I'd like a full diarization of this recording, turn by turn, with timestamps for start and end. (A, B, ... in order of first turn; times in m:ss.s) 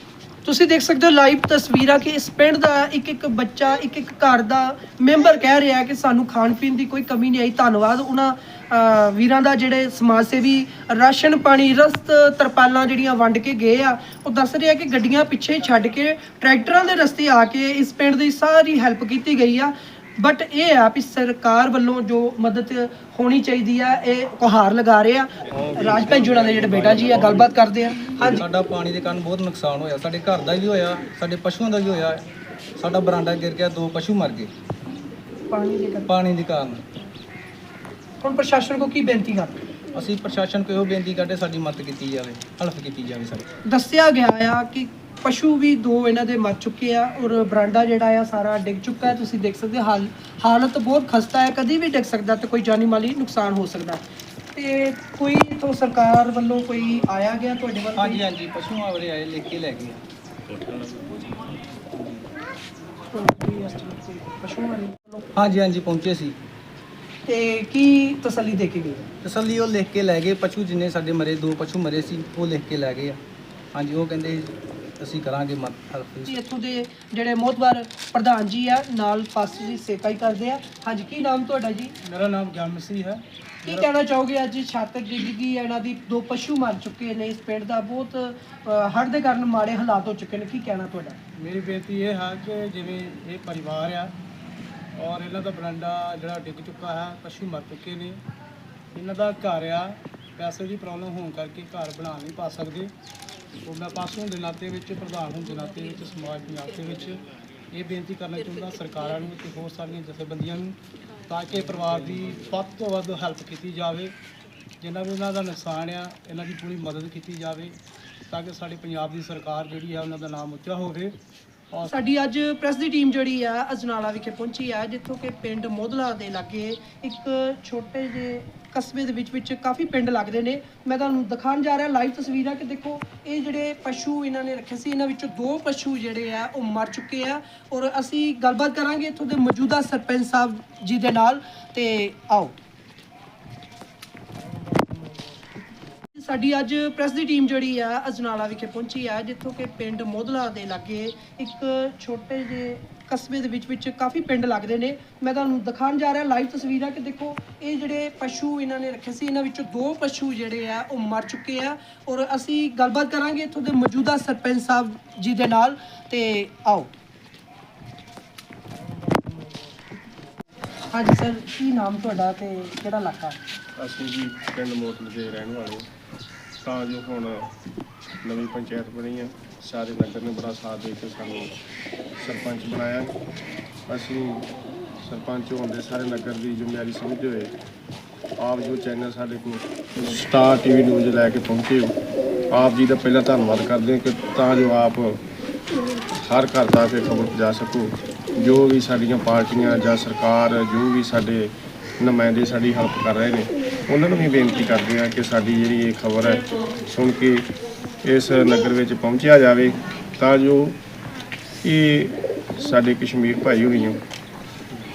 0:00.4-0:28.4 A
0:25.5-0:27.5 B
0:28.2-0:32.2 B
0:32.8-0:34.5 B
0:35.5-0:36.1 A
0:36.1-0:36.8 B
0:38.2-0:39.6 A
0:39.9-0:43.5 B
0:43.6-0:54.0 A
0:54.5-0:58.2 A
0:58.0-1:00.0 B
1:01.9-1:02.2 B
1:03.1-1:05.3 A
1:05.3-1:06.4 B
1:07.2-1:09.0 A
1:09.2-1:13.2 B
1:13.7-1:16.4 B
1:16.3-1:21.9 A
1:22.0-1:23.9 C
1:23.6-1:31.2 A
1:31.4-1:34.1 C
1:35.0-1:38.2 C
1:38.9-1:42.9 C
1:43.6-1:50.8 C
1:51.3-1:54.1 C
1:54.8-1:57.8 C
1:58.3-2:01.2 C
2:01.8-2:22.5 A
2:26.1-2:46.9 A
2:50.9-2:53.4 A
2:53.8-2:55.9 D
2:56.6-2:57.5 D
2:58.2-3:01.5 D
3:02.2-3:03.2 D
3:03.9-3:04.5 D
3:05.0-3:07.5 D
3:08.4-3:12.0 D
3:12.5-3:15.2 D
3:16.2-3:27.5 D
3:28.0-3:30.8 D
3:31.6-3:34.0 D